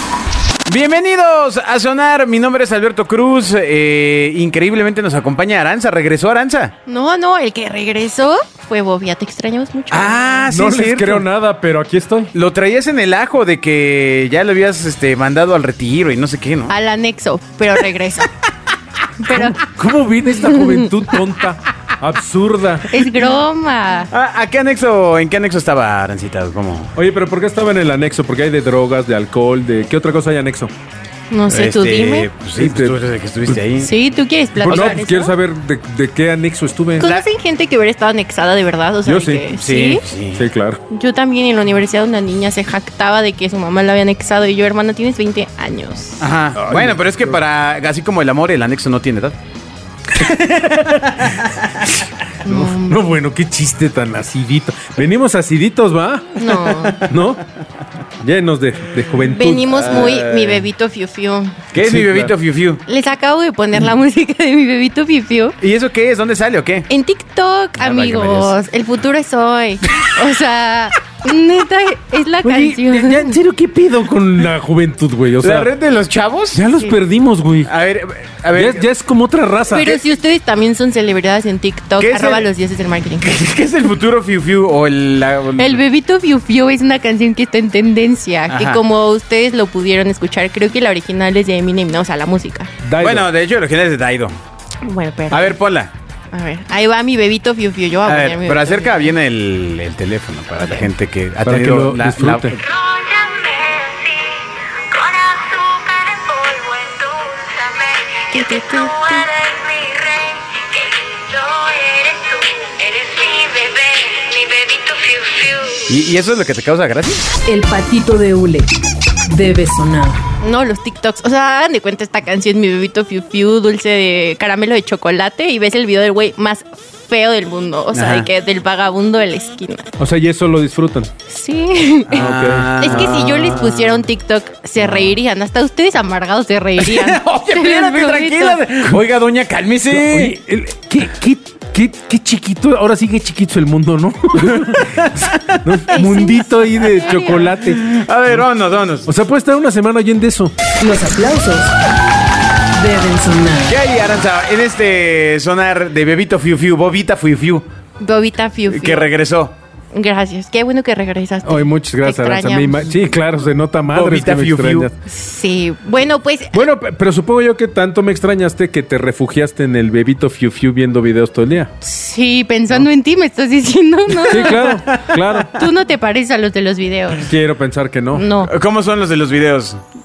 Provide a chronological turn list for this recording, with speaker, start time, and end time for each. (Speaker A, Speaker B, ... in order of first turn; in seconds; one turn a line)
Speaker A: 0.7-6.7
Speaker B: 6.9-10.4
Speaker A: 9.9-11.3
Speaker C: 10.5-12.3
Speaker A: 12.3-16.7
Speaker B: 16.7-18.3
Speaker B: 19.2-19.6
Speaker C: 19.3-23.0
Speaker B: 20.3-20.9
Speaker B: 22.9-24.1
Speaker A: 24.1-26.9
Speaker C: 26.9-30.7
Speaker B: 31.3-32.3
Speaker A: 31.5-33.9
Speaker C: 32.6-32.9
Speaker B: 33.8-35.3
Speaker C: 34.5-37.1
Speaker A: 34.7-35.0
Speaker B: 37.0-40.0
Speaker C: 39.0-39.5
Speaker A: 39.5-40.5
Speaker C: 40.4-40.8
Speaker B: 40.9-46.3
Speaker A: 46.2-49.4
Speaker C: 46.5-47.3
Speaker A: 50.1-51.9
Speaker B: 52.4-53.0
Speaker C: 52.4-57.4
Speaker B: 56.4-57.0
Speaker C: 58.2-60.0
Speaker B: 59.3-61.6
Speaker A: 59.7-60.6
Speaker A: 61.7-62.8
Speaker C: 61.8-62.3
Speaker B: 62.9-65.6
Speaker A: 65.6-66.9
Speaker B: 66.9-73.4
Speaker A: 67.8-68.5
Speaker C: 72.4-75.7
Speaker A: 75.4-76.6
Speaker C: 76.5-77.7
Speaker A: 77.7-78.8
Speaker C: 78.5-80.0
Speaker B: 79.7-83.3
Speaker A: 82.0-82.5
Speaker A: 83.2-85.8
Speaker B: 85.6-92.7
Speaker A: 88.5-88.8
Speaker C: 92.8-93.3
Speaker A: 93.0-94.3
Speaker B: 94.8-95.6
Speaker A: 95.3-95.9
Speaker B: 96.3-99.1
Speaker A: 98.0-102.8
Speaker C: 101.4-102.5
Speaker D: 102.7-108.2
Speaker B: 108.3-109.3
Speaker D: 109.3-115.8
Speaker A: 115.9-117.3
Speaker E: 117.5-118.7
Speaker E: 119.3-120.2
Speaker B: 120.4-129.9
Speaker A: 127.9-128.3
Speaker C: 130.0-131.1
Speaker B: 131.3-138.6
Speaker A: 132.1-134.0
Speaker C: 132.1-133.6
Speaker A: 134.8-135.1
Speaker A: 136.8-140.3
Speaker C: 139.9-148.4
Speaker A: 144.6-145.8
Speaker B: 145.9-147.5
Speaker A: 147.1-149.1
Speaker C: 149.0-150.5
Speaker E: 150.8-151.8
Speaker E: 152.7-153.8
Speaker A: 153.7-157.6
Speaker B: 158.0-159.1
Speaker A: 158.7-159.5
Speaker B: 159.9-162.9
Speaker C: 161.4-164.9
Speaker A: 163.9-164.9
Speaker B: 165.1-166.6
Speaker C: 166.5-171.7
Speaker B: 171.8-174.8
Speaker C: 174.2-175.5
Speaker A: 174.2-175.5
Speaker B: 175.4-177.3
Speaker C: 177.2-178.4
Speaker B: 178.1-178.5
Speaker A: 178.4-179.8